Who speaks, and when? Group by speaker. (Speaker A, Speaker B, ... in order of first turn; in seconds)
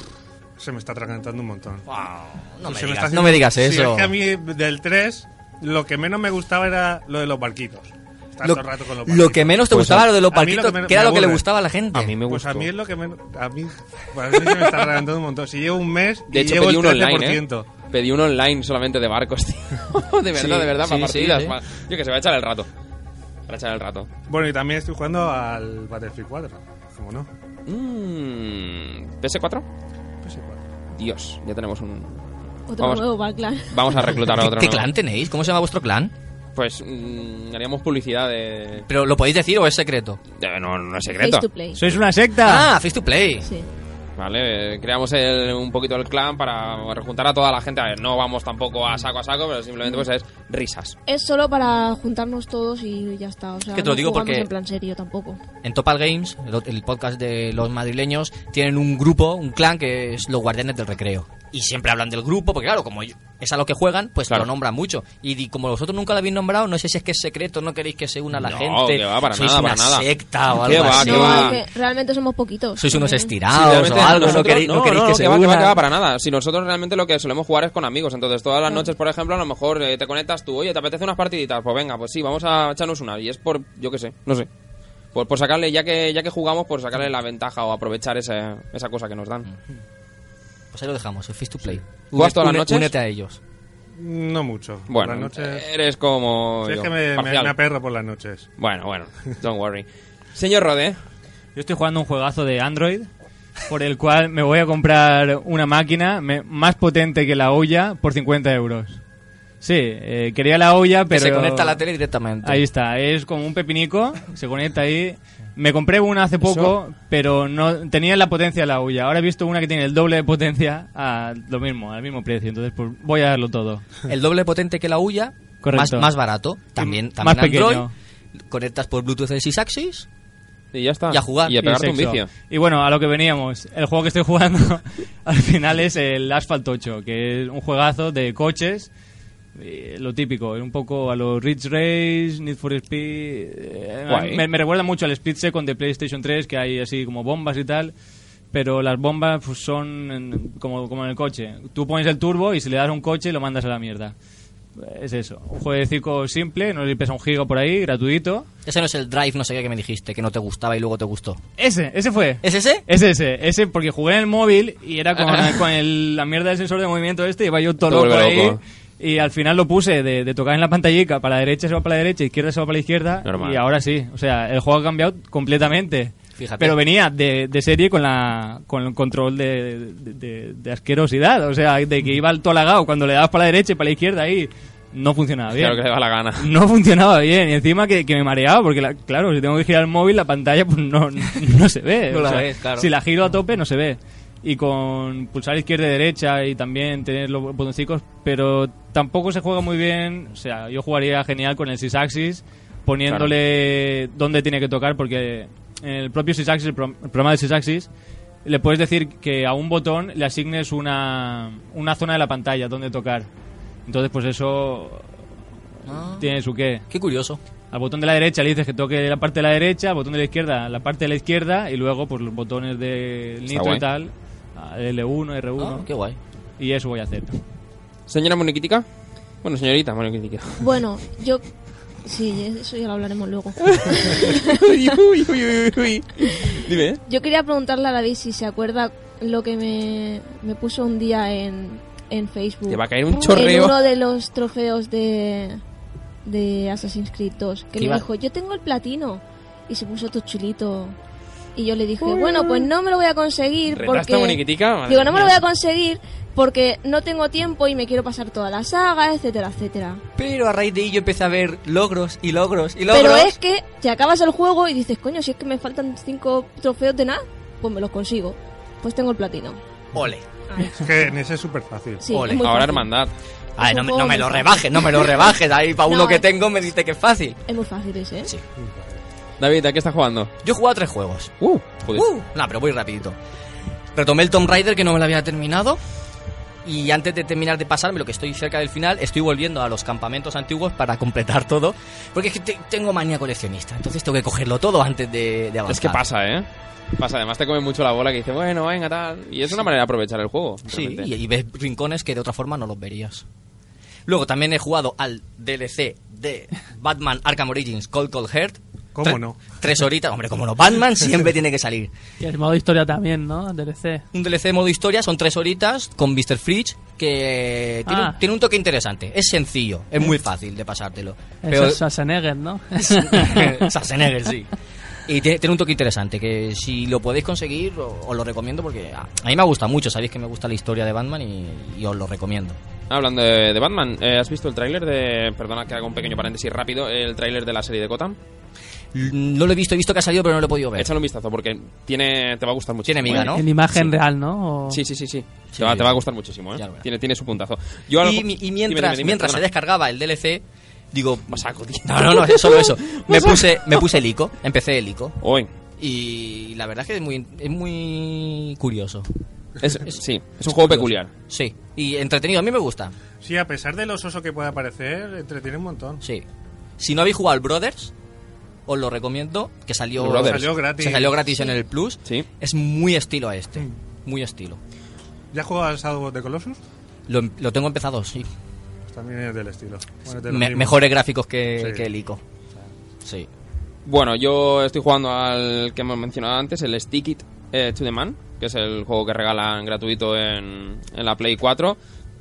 Speaker A: 0.6-1.8, 2.6-11.4, 12.2-17.6, 24.3-27.3, 30.2-30.6, 94.0-95.6, 96.6-98.5, 270.7-272.1, 278.6-278.9, 308.9-309.4, 363.2-366.0, 370.1-371.2, 375.3-376.6, 378.9-380.8, 381.6-381.8
Speaker B: 1.9-4.1, 8.4-12.2, 20.3-21.6, 34.2-36.1, 38.9-40.2, 42.4-43.4, 53.7-54.5, 55.6-71.6, 72.8-75.8, 90.7-93.4, 111.1-112.6, 124.1-127.9, 128.5-130.1, 131.1-131.6, 158.6-161.4, 162.4-162.8, 176.4-176.8, 192.1-192.9, 215.8-216.3, 216.9-217.4, 225.6-226.2, 247.8-248.0, 260.2-263.3, 269.9-270.2, 272.1-272.4, 273.6-277.4, 280.4-281.3, 281.9-283.2, 283.9-285.8, 286.6-296.0, 300.7-303.2, 304.1-311.9, 314.1-321.8, 322.8-324.5, 325.1-332.6, 338.9-340.9, 342.8-343.4, 345.5-346.0, 346.5-346.8, 348.0-355.2, 355.8-359.1, 359.8-362.9, 366.8-367.9, 368.6-374.6, 377.1-378.2, 380.2-382.2, 383.0-383.3
Speaker C: 9.7-10.1, 11.9-12.7, 16.3-22.7, 23.5-24.1, 27.7-29.6, 30.9-32.2, 32.8-33.0, 33.7-34.9, 36.5-38.9, 40.4-41.5, 44.2-51.0, 68.4-71.6, 73.5-84.5, 85.1-89.5, 92.1-92.9, 94.9-97.5, 98.6-101.0, 130.7-132.3, 144.1-144.4, 167.8-168.6, 173.2-173.6, 185.5-186.5, 203.1-203.3, 223.5-223.8, 228.1-228.8, 229.4-230.7, 233.7-237.0, 242.7-243.8, 253.7-255.4, 272.4-273.1, 279.4-280.3, 281.4-282.1, 295.7-296.4, 297.0-301.1, 332.9-338.2, 340.8-343.9, 344.7-349.4, 351.3-353.6, 355.2-355.5, 359.6-361.1, 370.0-370.5, 383.8-391.8
Speaker D: 32.7-34.0, 41.2-41.8, 43.4-43.7, 51.1-55.4, 70.8-73.3, 230.6-231.4, 232.0-234.6, 237.1-245.6, 246.2-250.9, 251.6-260.0, 262.9-269.6, 270.5-270.8, 272.0-272.9, 273.6-275.3, 275.8-276.2, 277.5-278.3
Speaker E: 41.8-42.7, 101.5-103.1, 103.7-109.0, 109.6-111.8, 112.4-123.8, 125.6-126.1, 126.8-127.9, 131.6-138.9, 139.5-147.9, 148.5-154.1, 154.8-158.5, 161.6-185.8, 186.4-207.9, 208.4-213.3, 213.8-215.1, 215.9-216.8, 217.7-225.9, 226.6-227.4
Speaker F: 312.2-314.0, 317.9-318.2, 321.4-323.5, 343.1-344.8